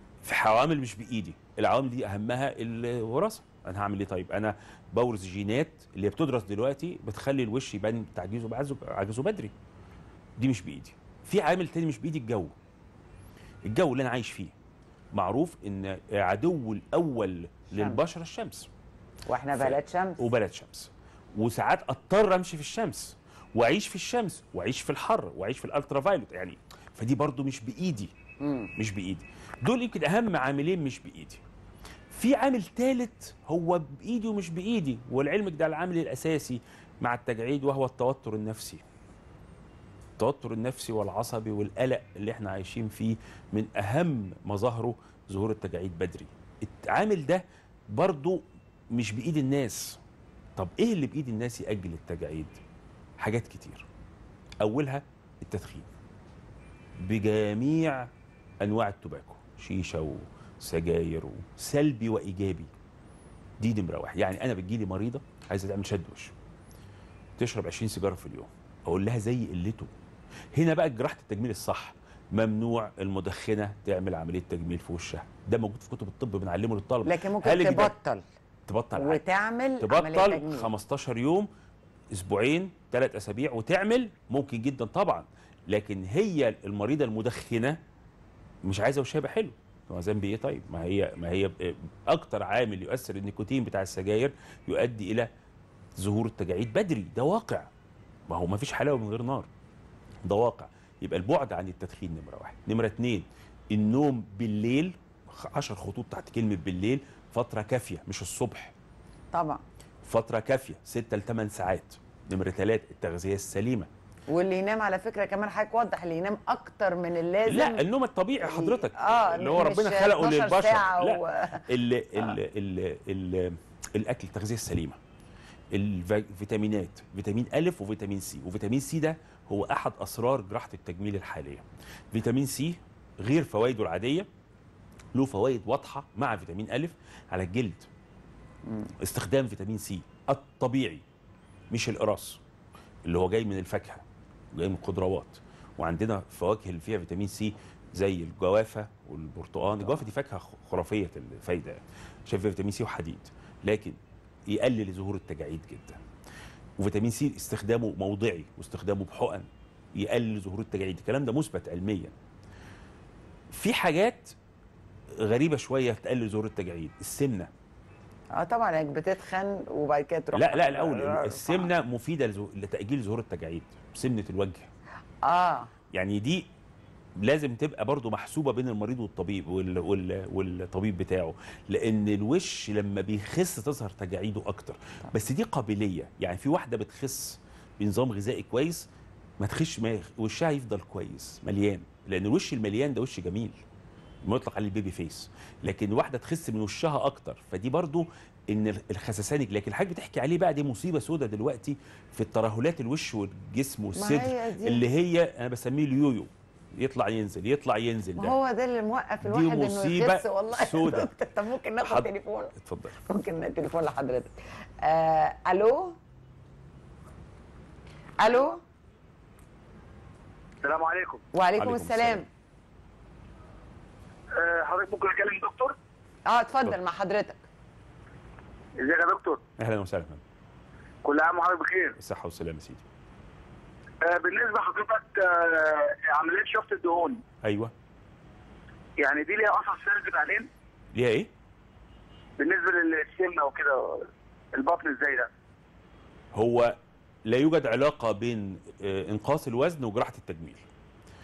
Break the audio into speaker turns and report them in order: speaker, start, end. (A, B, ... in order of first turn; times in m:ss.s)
0:00.2-0:09.5 A
0:10.4-0:12.5 A
0:13.6-0:14.5 A
0:15.1-0:18.7 A
0:17.7-0:18.0 B
0:19.3-0:20.2 B
0:19.5-0:28.1 A
0:28.4-0:28.7 B
0:28.8-0:31.4 A
0:32.1-0:38.8 A
0:40.2-0:50.0 A
0:50.6-0:52.6 A
0:53.2-0:53.8 A
0:54.6-0:55.9 A
0:57.0-0:58.1 A
0:58.6-1:02.7 A
1:03.6-1:06.3 A
1:07.4-1:09.9 A
1:10.6-1:17.9 A
1:17.0-1:18.2 B
1:18.7-1:19.2 A
1:19.0-1:20.7 B
1:19.8-1:21.5 A
1:22.1-1:27.8 A
1:28.6-1:35.3 A
1:36.0-1:37.7 A
1:38.3-1:39.5 A
1:40.2-1:48.7 A
1:49.3-1:49.6 B
1:50.0-1:53.9 A
1:54.3-1:57.8 B
1:57.4-2:05.0 A
1:58.4-2:01.7 B
2:05.7-2:14.3 A
2:15.1-2:17.9 A
2:19.0-2:21.0 A
2:21.7-2:22.4 A
2:23.0-2:34.0 A
2:34.5-2:36.0 A
2:36.8-2:42.1 A
2:43.5-2:44.3 A
2:45.2-2:47.5 A
2:48.3-2:51.7 B
2:50.3-2:54.7 A
2:55.2-2:55.7 B
2:55.9-2:56.5 A
2:57.2-3:08.9 A
3:09.4-3:13.6 A
3:14.2-3:28.3 A
3:23.9-3:24.8 B
3:28.2-3:32.5 B
3:29.2-3:31.1 A
3:31.8-3:33.0 A
3:33.0-3:36.0 B
3:38.2-3:38.6 B
3:40.6-3:41.2 C
3:41.3-3:42.3 B
3:41.6-3:42.2 A
3:44.3-3:45.7 C
3:46.3-3:47.4 B
3:48.8-3:49.4 C
3:49.6-3:50.2 A
3:51.0-3:52.0 C
3:52.0-3:52.8 A
3:54.0-3:57.2 C
3:57.4-3:57.7 A
3:59.0-4:00.5 C
4:00.9-4:01.3 A
4:02.4-4:05.3 C
4:06.3-4:06.7 A
4:07.2-4:10.6 A